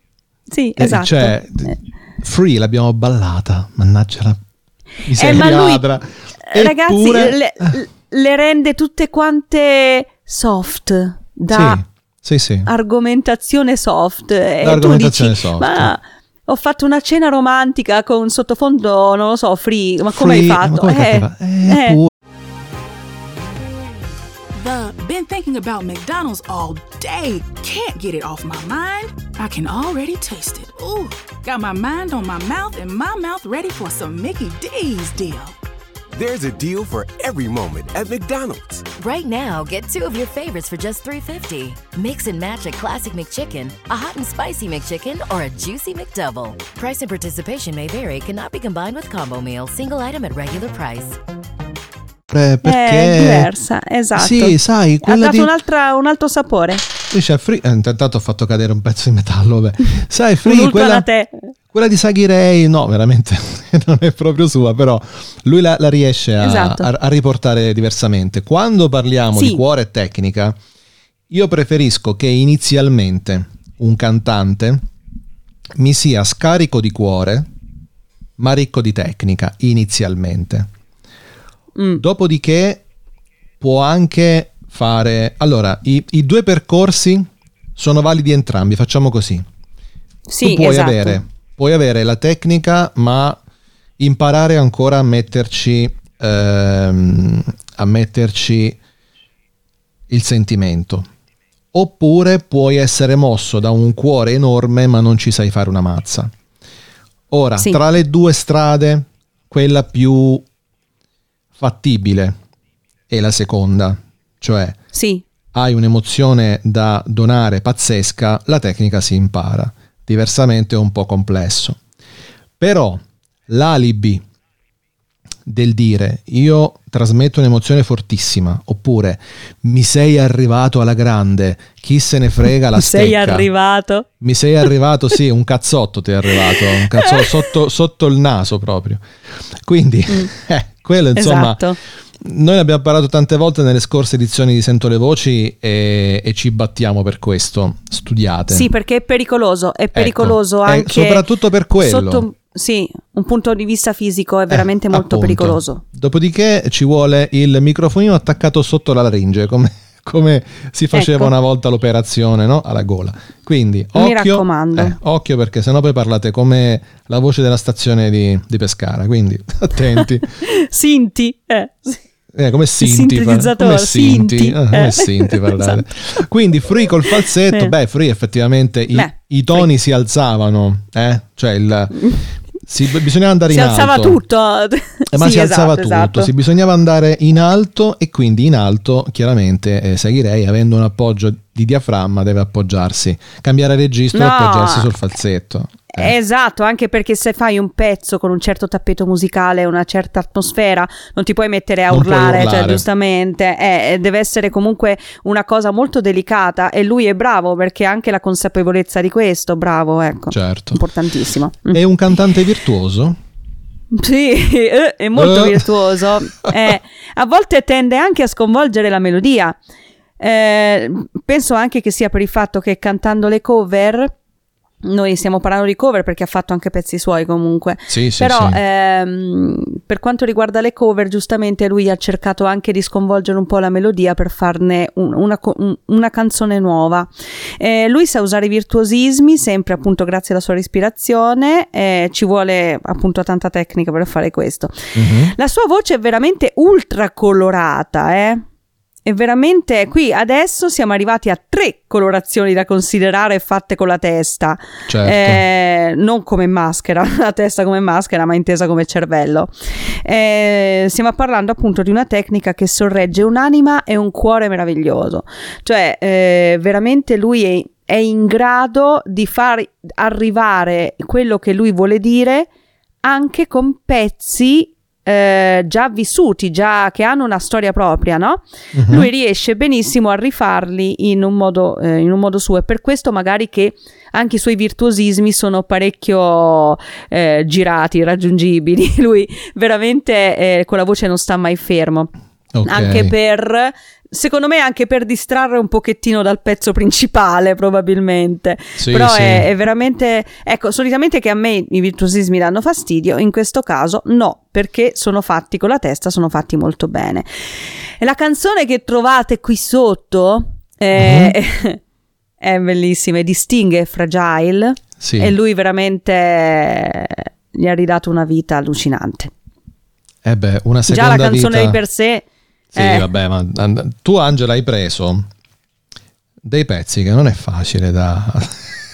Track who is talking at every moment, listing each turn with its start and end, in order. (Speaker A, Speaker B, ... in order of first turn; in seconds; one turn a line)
Speaker A: 0.5-1.3
Speaker B: 0.8-4.4
Speaker B: 5.0-7.8
Speaker A: 5.2-5.8
Speaker A: 6.5-11.8
Speaker B: 11.5-12.7
Speaker A: 12.7-22.0
Speaker B: 14.6-15.9
Speaker B: 20.0-22.1
Speaker C: 24.5-35.5
Speaker D: 36.1-38.9
Speaker E: 39.0-51.2
Speaker B: 52.3-53.5
Speaker A: 52.6-56.8
Speaker B: 54.2-55.5
Speaker B: 57.1-61.1
Speaker A: 60.4-61.4
Speaker B: 61.7-70.6
Speaker A: 66.4-66.9
Speaker A: 69.3-69.6
Speaker B: 71.3-74.8
Speaker B: 75.8-77.5
Speaker B: 78.4-80.7
Speaker A: 81.8-82.0
Speaker B: 82.0-82.8
Speaker B: 83.6-89.4
Speaker A: 90.3-91.2
Speaker B: 90.4-93.4
Speaker B: 94.0-98.8
Speaker B: 100.1-101.1
Speaker B: 101.7-106.3
Speaker B: 107.3-110.4
Speaker B: 111.6-112.4
Speaker B: 113.1-114.8
Speaker A: 114.9-115.2
Speaker B: 115.5-121.8
Speaker B: 122.6-124.2
Speaker B: 125.5-133.4
Speaker A: 132.8-134.1
Speaker B: 134.2-141.6
Speaker A: 136.5-137.4
Speaker A: 141.2-141.8
Speaker B: 142.2-148.7
Speaker A: 148.5-151.2
Speaker B: 149.9-152.2
Speaker A: 151.8-155.8
Speaker B: 154.5-170.3
Speaker A: 160.9-161.3
Speaker A: 163.9-165.0
Speaker A: 169.9-172.0
Speaker B: 172.3-184.2
Speaker A: 172.8-175.8
Speaker A: 177.1-177.7
Speaker A: 178.9-179.7
Speaker A: 183.5-186.3
Speaker B: 185.1-196.1
Speaker A: 194.1-194.9
Speaker A: 195.9-211.8
Speaker B: 201.9-202.8
Speaker B: 210.3-210.8
Speaker B: 211.7-213.2
Speaker A: 213.9-219.6
Speaker B: 215.2-215.7
Speaker A: 220.2-224.1
Speaker A: 224.8-244.7
Speaker B: 227.9-228.6
Speaker B: 244.9-245.3
Speaker A: 245.3-248.4
Speaker A: 249.0-259.5
Speaker B: 254.9-255.4
Speaker A: 260.0-272.5
Speaker A: 273.0-292.1
Speaker B: 278.7-279.1
Speaker B: 292.5-293.1
Speaker A: 292.6-307.3
Speaker B: 298.8-299.5
Speaker A: 308.0-311.8
Speaker B: 310.9-311.3
Speaker A: 312.4-319.3
Speaker B: 315.0-315.3
Speaker B: 320.2-321.8
Speaker A: 320.9-322.2
Speaker B: 322.7-325.2
Speaker A: 322.8-323.0
Speaker B: 326.4-328.7